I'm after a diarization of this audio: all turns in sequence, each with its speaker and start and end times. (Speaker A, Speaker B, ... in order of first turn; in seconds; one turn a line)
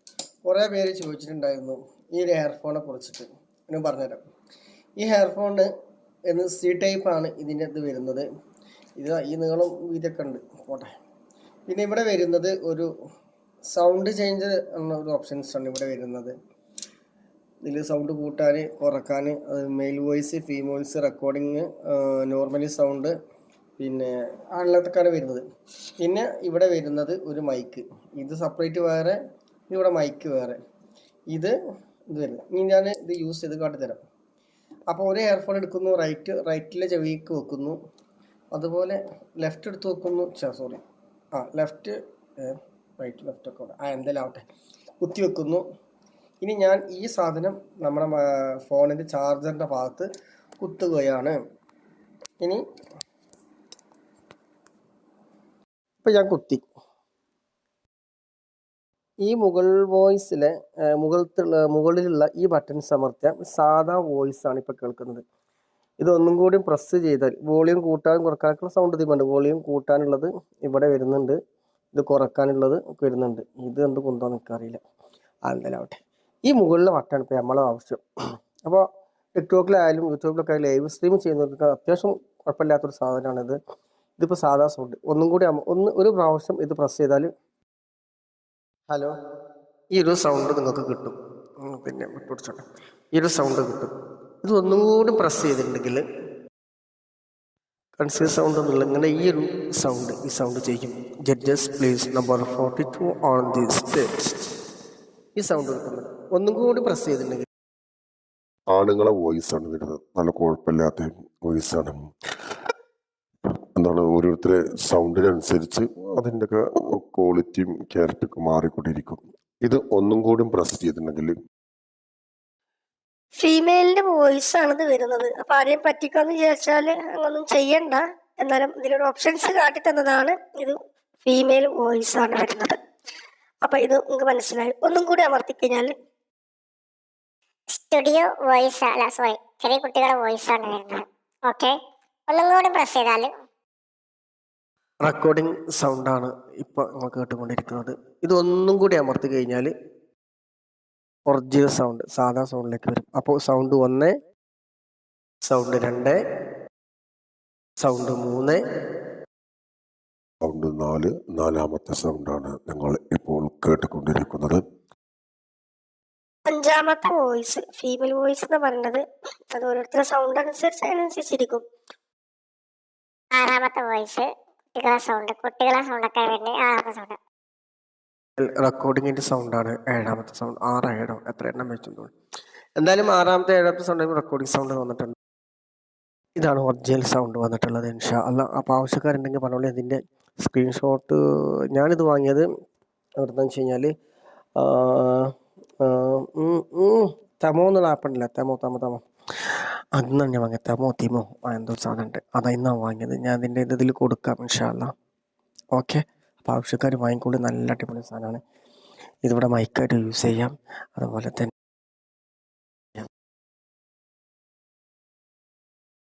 Speaker A: 0.5-4.2
Speaker A: 5.0-5.7
Speaker A: 6.3-8.3
Speaker A: 9.0-10.9
Speaker A: 11.7-12.9
Speaker A: 13.7-16.4
Speaker A: 17.6-23.1
Speaker A: 23.8-25.4
Speaker A: 26.0-29.2
Speaker A: 29.7-30.6
Speaker A: 32.1-34.0
Speaker A: 34.9-37.8
Speaker A: 38.5-40.8
Speaker A: 41.4-44.4
Speaker A: 45.0-45.6
Speaker A: 46.4-50.1
Speaker A: 50.6-51.4
Speaker A: 56.0-56.6
Speaker A: 59.2-65.2
Speaker A: 66.0-71.4
Speaker A: 71.9-74.8
Speaker A: 75.5-78.0
Speaker A: 79.4-83.6
Speaker A: 84.2-87.3
Speaker A: 88.9-89.1
Speaker A: 89.9-93.9
Speaker A: 94.4-96.0
Speaker A: 98.0-104.3
Speaker A: 105.4-107.5
Speaker B: 108.7-112.0
Speaker B: 113.8-121.3
Speaker C: 123.4-132.8
Speaker C: 133.6-135.9
Speaker D: 137.7-141.8
Speaker D: 142.3-143.3
Speaker A: 145.1-149.7
Speaker A: 151.3-154.2
Speaker A: 155.5-156.2
Speaker A: 157.8-158.6
Speaker B: 160.4-164.6
Speaker C: 166.5-171.6
Speaker D: 173.4-177.2
Speaker A: 178.4-182.1
Speaker A: 182.8-185.2
Speaker A: 186.4-191.2
Speaker A: 191.7-192.5
Speaker A: 193.2-193.9
Speaker A: 194.6-199.0
Speaker A: 200.0-204.9
Speaker A: 205.7-208.4
Speaker A: 209.2-211.5